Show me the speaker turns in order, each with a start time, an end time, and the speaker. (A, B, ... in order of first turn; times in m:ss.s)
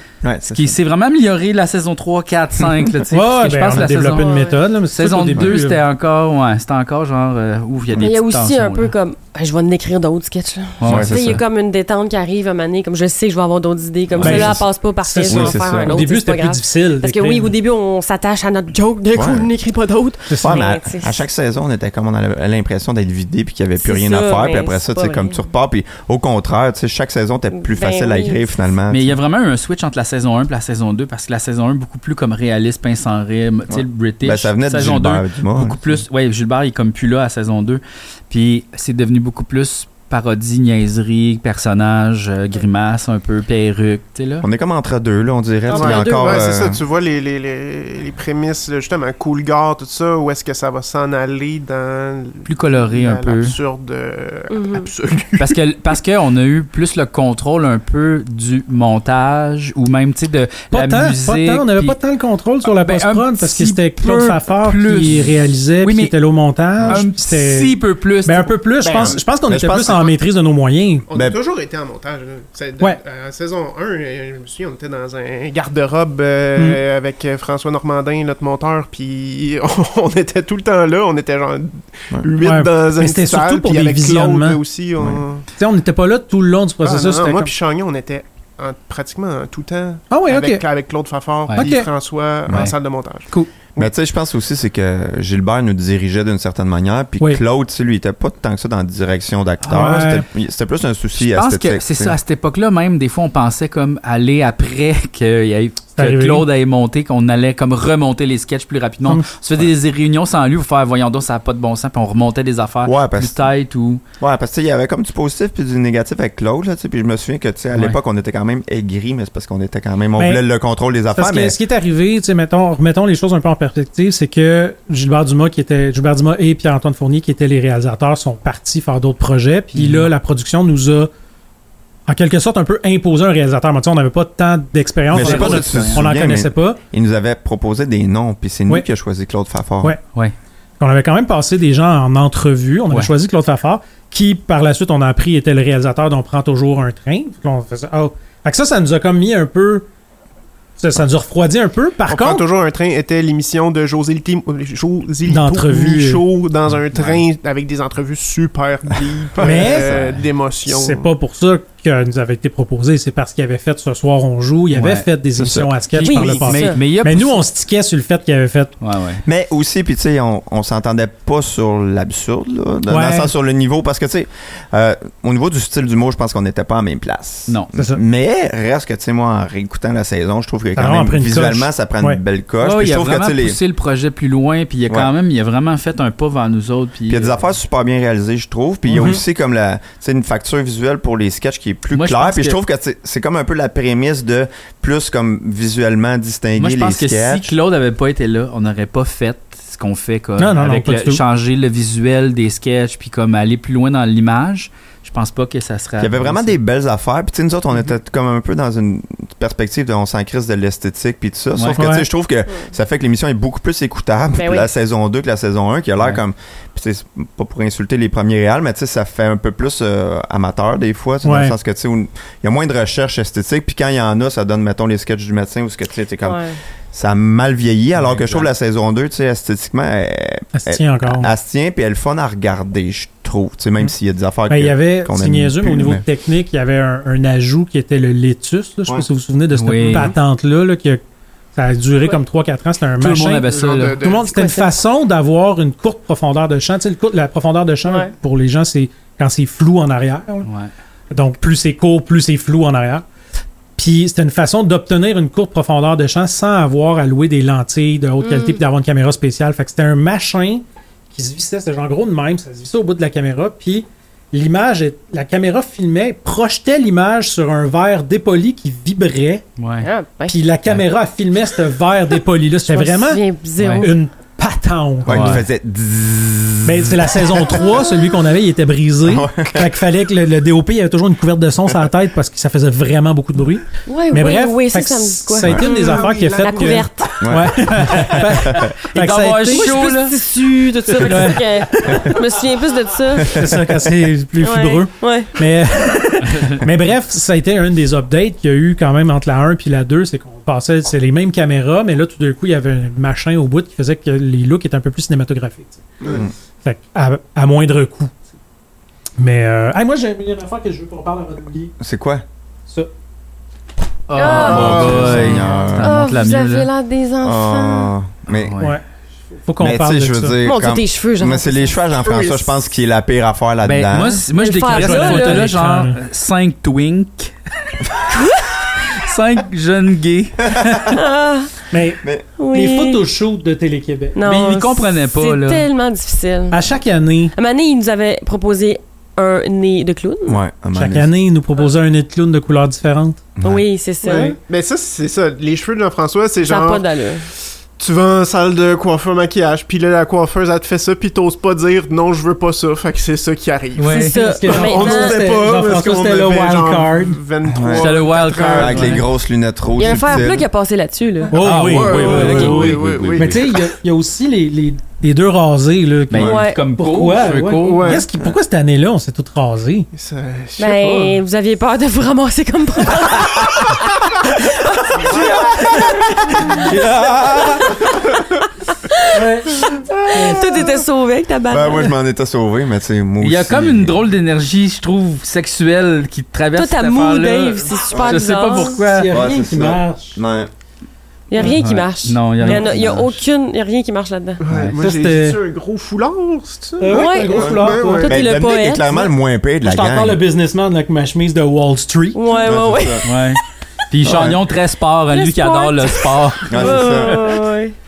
0:00.2-0:00.8 A
0:00.4-0:04.3 B
0:03.1-0:05.8 C
0:04.1-0:04.6 D
0:04.9-0:08.9 B
0:08.0-0:21.2 D
0:10.8-0:11.2 B
0:10.8-0:11.4 A
0:14.1-0:14.6 A
0:14.2-0:17.5 C
0:15.3-0:16.0 A
0:19.1-0:19.5 A
0:20.3-0:20.6 C
0:20.4-0:29.2 A
0:23.8-0:25.4 D
0:27.5-0:28.4 D
0:28.9-0:44.4 B
0:33.7-0:36.0 A
0:44.4-0:46.8 A
0:45.7-0:46.4 D
0:45.7-0:55.6 E
0:52.4-0:53.6 B
0:54.5-0:54.9 D
0:55.4-1:02.0 B
1:00.7-1:11.1 C
1:02.6-1:06.1 B
1:06.8-1:08.6 B
1:08.8-1:09.2 E
1:08.8-1:10.1 A
1:11.1-1:25.4 E
1:11.1-1:11.4 A
1:22.4-1:24.6 C
1:25.6-1:27.5 C
1:26.8-1:33.9 E
1:30.1-1:30.6 C
1:31.6-1:31.9 C
1:33.8-1:42.2 A
1:39.6-1:40.0 B
1:39.7-1:40.2 C
1:41.2-1:54.0 B
1:46.0-1:46.4 C
1:49.0-1:49.3 C
1:52.8-1:53.4 A
1:54.2-2:01.6 A
2:00.2-2:00.4 C
2:01.1-2:11.1 C
2:09.8-2:10.1 B
2:12.1-2:16.8 C
2:15.1-2:20.0 A
2:15.1-2:16.0 B
2:20.8-2:29.9 C
2:30.8-2:32.4 C
2:32.0-2:41.1 E
2:35.3-2:36.2 C
2:36.9-2:37.2 B
2:39.4-2:40.1 A
2:39.4-2:39.9 C
2:39.9-2:40.2 B
2:40.7-2:48.7 C
2:44.7-2:45.1 B
2:45.4-2:45.7 A
2:45.9-2:47.4 B
2:46.0-2:46.8 D
2:48.8-2:49.2 B
2:49.2-3:03.6 A
2:52.9-2:53.3 C
2:57.7-2:58.0 C
3:00.8-3:02.2 C
3:02.6-3:07.4 B
3:07.1-3:17.5 A
3:08.9-3:09.2 C
3:11.9-3:12.6 B
3:16.6-3:26.6 B
3:20.4-3:21.2 C
3:26.0-3:56.0 A
3:31.8-3:32.0 C
3:34.3-3:34.7 D
3:41.2-3:41.5 C
3:46.2-3:46.6 D
3:48.0-3:48.5 B
3:50.5-3:51.3 C
3:54.5-4:01.0 C
3:59.5-4:00.1 B
4:01.6-4:03.5 C
4:03.0-4:04.0 B
4:03.4-4:04.3 E
4:04.0-4:10.5 C
4:04.3-4:04.7 D
4:07.8-4:08.1 D
4:10.4-4:10.7 B
4:11.1-4:13.0 C
4:13.8-4:29.4 C
4:18.2-4:18.6 D
4:29.6-4:29.9 B
4:29.8-4:30.4 D
4:30.3-4:33.2 C
4:32.7-4:34.0 D
4:33.6-4:33.9 B
4:33.8-4:35.4 C
4:35.0-4:37.7 A
4:35.1-4:35.4 B
4:36.6-4:49.7 C
4:39.0-4:39.7 A
4:43.9-4:47.2 D
4:45.4-4:45.7 A
4:45.7-4:46.8 E
4:47.2-4:48.7 A
4:47.9-4:50.2 B
4:49.5-4:53.4 D
4:50.9-4:51.3 B
4:51.0-4:51.6 C
4:53.2-4:53.9 A
4:53.3-5:05.8 C
4:54.4-4:55.3 D
4:56.3-4:56.5 B
5:06.0-5:06.3 A
5:06.6-5:08.2 C
5:09.2-5:11.7 C
5:11.8-5:12.2 A
5:14.1-5:16.7 B
5:14.2-5:14.9 D
5:14.3-5:15.4 E
5:14.4-5:16.0 A
5:15.8-5:17.9 D
5:17.2-5:18.5 A
5:18.3-5:18.8 B
5:19.4-5:20.4 C
5:19.6-5:24.2 A
5:20.4-5:21.8 D
5:22.0-5:22.5 E
5:23.6-5:27.3 B
5:24.4-5:25.5 D
5:24.6-5:26.0 C
5:28.1-5:28.6 D
5:28.8-5:30.8 B
5:30.4-5:30.9 A
5:30.9-5:31.5 D
5:31.7-5:34.2 C
5:32.4-5:33.0 D
5:34.1-5:36.6 D
5:34.2-5:35.6 B
5:36.5-5:37.3 C
5:37.3-5:40.4 D
5:40.3-5:41.1 A
5:40.7-5:43.2 C
5:43.4-5:43.6 A
5:43.4-5:44.3 D
5:44.0-5:44.4 C
5:44.0-5:59.0 E
5:46.4-5:47.2 D
5:53.8-5:54.2 B
5:53.9-5:55.2 D
5:54.2-5:57.2 C
5:57.5-6:00.5 A
5:57.7-5:59.1 B
5:59.8-6:01.4 D
6:01.3-6:09.9 C
6:01.3-6:03.5 B
6:01.5-6:03.7 E
6:06.1-6:08.0 B
6:06.1-6:06.4 A
6:06.2-6:06.6 D
6:07.5-6:08.1 E
6:09.9-6:11.2 E
6:10.6-6:16.6 D
6:15.0-6:15.9 A
6:16.6-6:17.4 C
6:16.6-6:17.6 A
6:17.6-6:18.1 D
6:18.9-6:19.1 D
6:19.1-6:20.7 C
6:19.6-6:21.9 D
6:21.5-6:24.0 A
6:23.2-6:29.1 B
6:26.5-6:28.8 D
6:27.9-6:28.2 A
6:28.7-6:30.2 C
6:29.1-6:30.5 A
6:31.3-6:34.4 D
6:31.4-6:33.1 B
6:32.6-6:33.1 A
6:34.4-6:38.2 E
6:34.5-6:34.8 B
6:34.8-6:35.4 C
6:36.8-6:38.1 C
6:36.9-6:39.1 D
6:38.0-6:40.2 A
6:39.6-6:42.2 C
6:42.1-6:43.4 D
6:42.4-6:43.0 A
6:43.0-6:47.2 B
6:44.0-6:44.4 A
6:45.1-6:47.7 D
6:46.5-6:47.3 A